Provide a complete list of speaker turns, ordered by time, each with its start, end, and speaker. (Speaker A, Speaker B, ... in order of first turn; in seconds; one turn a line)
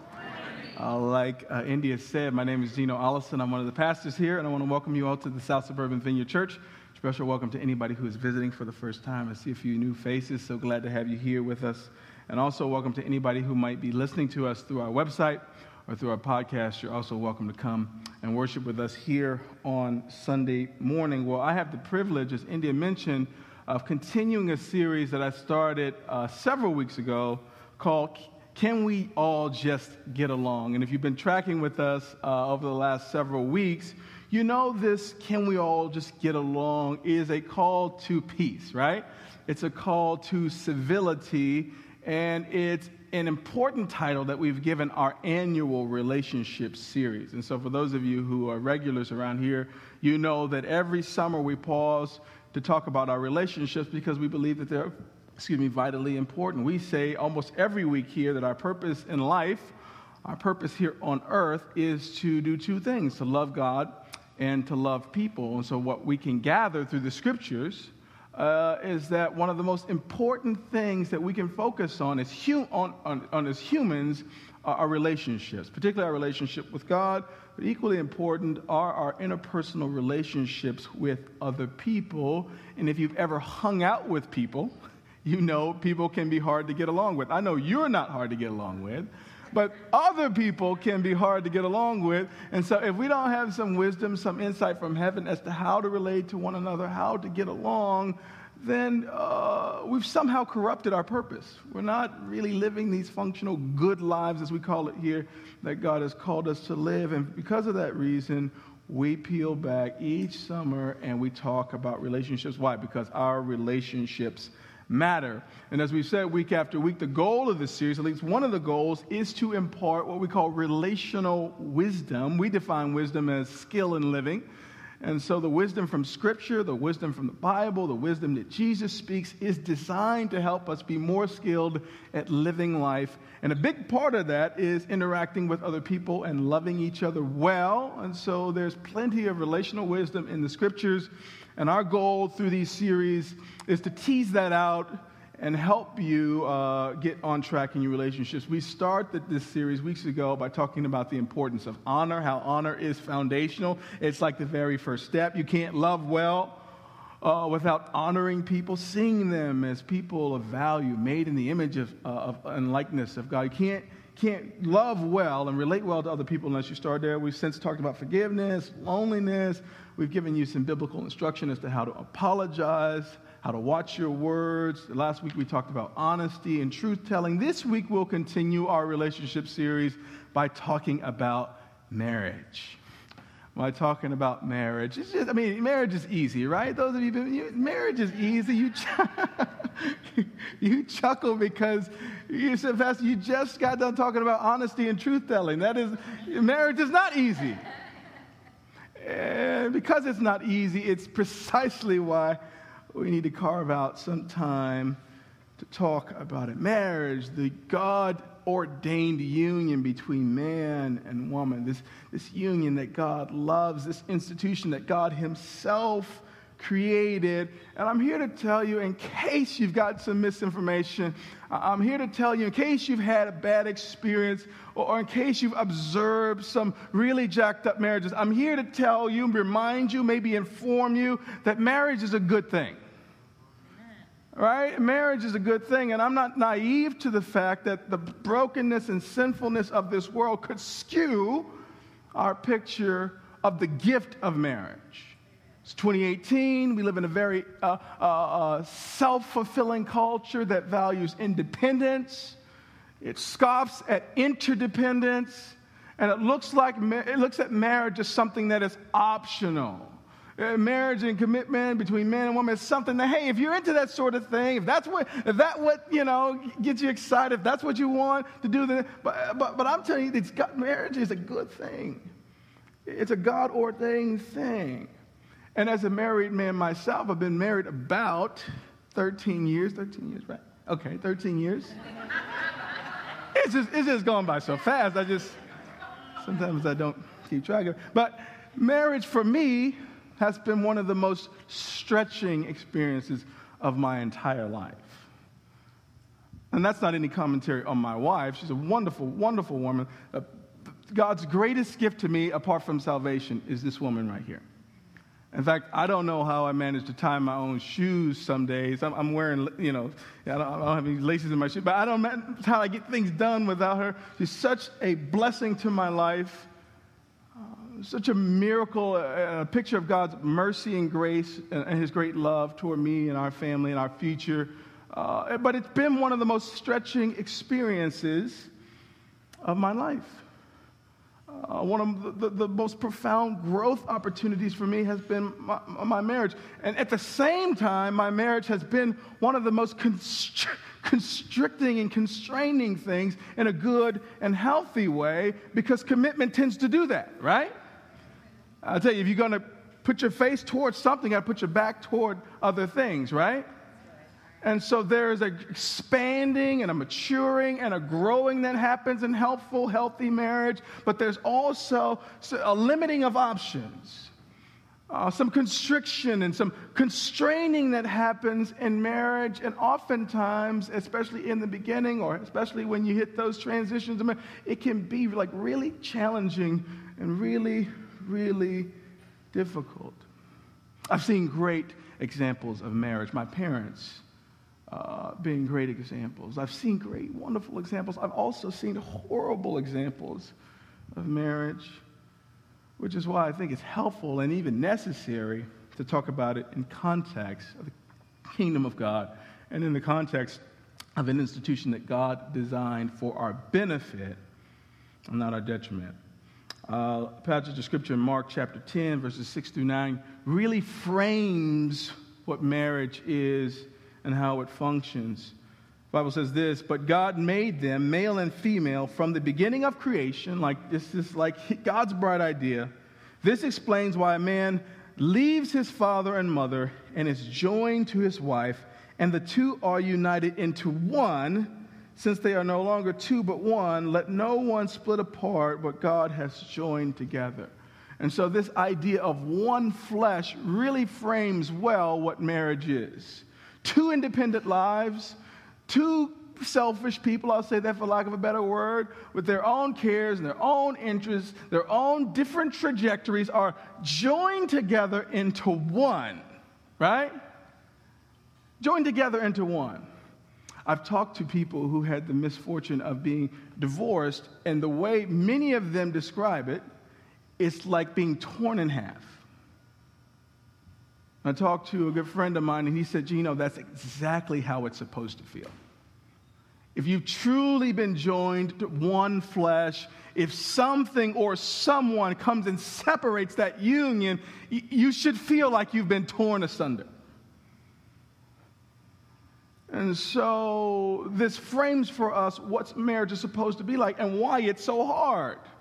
Speaker A: 0.8-59.7
Speaker A: 60.2-124.5
Speaker A: 125.0-156.6
Speaker A: 157.2-182.8
Speaker A: 183.6-197.6
Speaker A: 199.0-202.4
Speaker A: 202.9-205.0
Speaker A: 205.6-232.8
Speaker A: 234.3-241.6
Speaker A: 242.1-252.4
Speaker A: 253.0-272.1
Speaker A: 272.8-274.9
Speaker A: 275.5-281.8
Speaker A: 283.3-285.4
Speaker A: 286.2-295.1
Speaker A: 296.5-304.4
Speaker A: 305.3-316.5
Speaker A: 317.4-328.5
Speaker A: 329.4-330.2
Speaker A: 331.3-347.5
Speaker A: 348.6-353.4
Speaker A: 354.4-364.1
Speaker A: 364.9-378.7
Speaker A: 379.3-380.1
Speaker A: 380.9-384.0
Speaker A: 384.7-390.3
Speaker A: 390.9-391.8
Speaker A: 392.8-397.7
Speaker A: 398.2-400.4
Speaker A: 400.9-404.2
Speaker A: 405.1-406.0
Speaker A: 406.7-415.3
Speaker A: 415.9-456.2
Speaker A: 456.8-457.1
Speaker A: 458.6-459.9
Speaker A: 460.6-466.6
Speaker A: 467.4-469.2
Speaker A: 471.2-475.5
Speaker A: 476.8-486.9
Speaker A: 489.7-495.4